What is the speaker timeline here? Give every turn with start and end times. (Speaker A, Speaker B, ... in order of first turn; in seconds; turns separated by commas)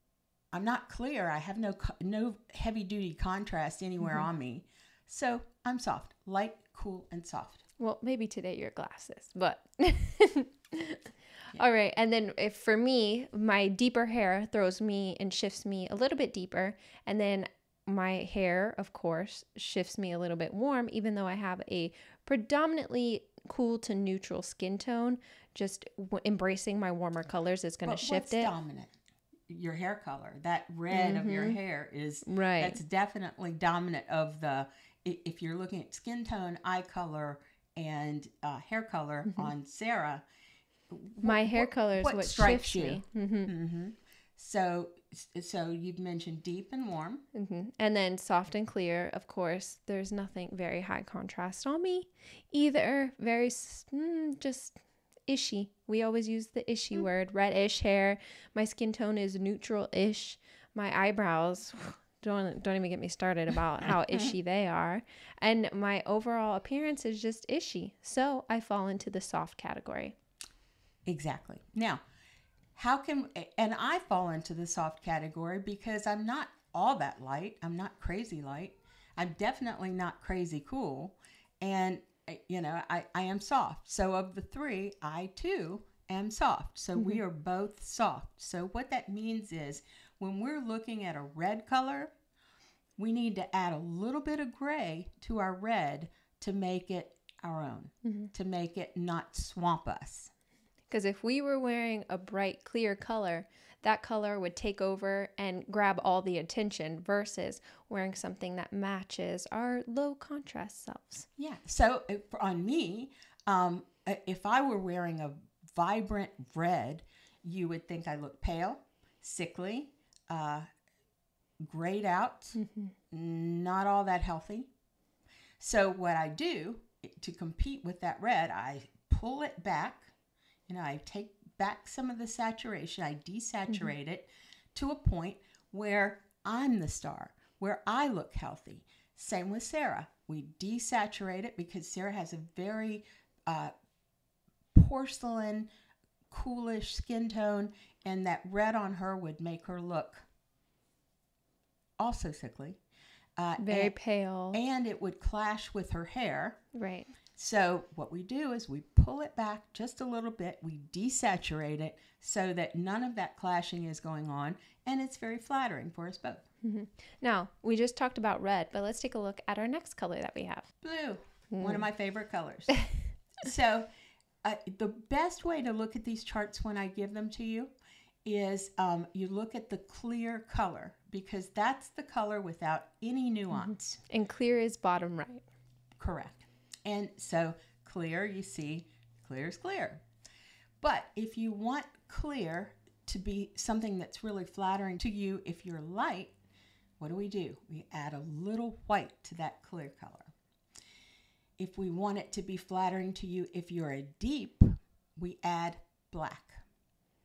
Speaker A: 0.5-7.6, Speaker B: 4.0-4.3, Speaker B: 7.8-28.5, Speaker A: 27.9-28.9, Speaker A: 29.5-40.2, Speaker B: 30.9-31.6, Speaker B: 32.3-32.8, Speaker A: 40.9-47.2, Speaker B: 41.2-43.5, Speaker B: 47.3-70.2, Speaker A: 71.1-72.0, Speaker A: 72.8-92.1, Speaker A: 93.0-100.3, Speaker B: 100.9-111.3, Speaker A: 111.4-120.7, Speaker A: 121.6-122.6, Speaker B: 122.6-122.9, Speaker A: 123.1-124.7, Speaker A: 125.6-130.1, Speaker A: 130.7-143.7, Speaker A: 144.7-145.7, Speaker A: 146.3-150.3, Speaker A: 152.0-152.8, Speaker A: 153.4-153.9, Speaker B: 153.6-154.6, Speaker A: 154.5-156.6, Speaker B: 156.7-157.1, Speaker A: 157.4-166.4, Speaker B: 166.6-170.7, Speaker A: 170.8-172.7, Speaker B: 171.5-171.8, Speaker A: 173.4-173.9, Speaker A: 174.4-177.7, Speaker A: 178.2-184.0, Speaker B: 183.5-185.4, Speaker A: 186.0-190.0, Speaker A: 190.8-196.3, Speaker A: 197.0-200.3, Speaker A: 201.6-206.6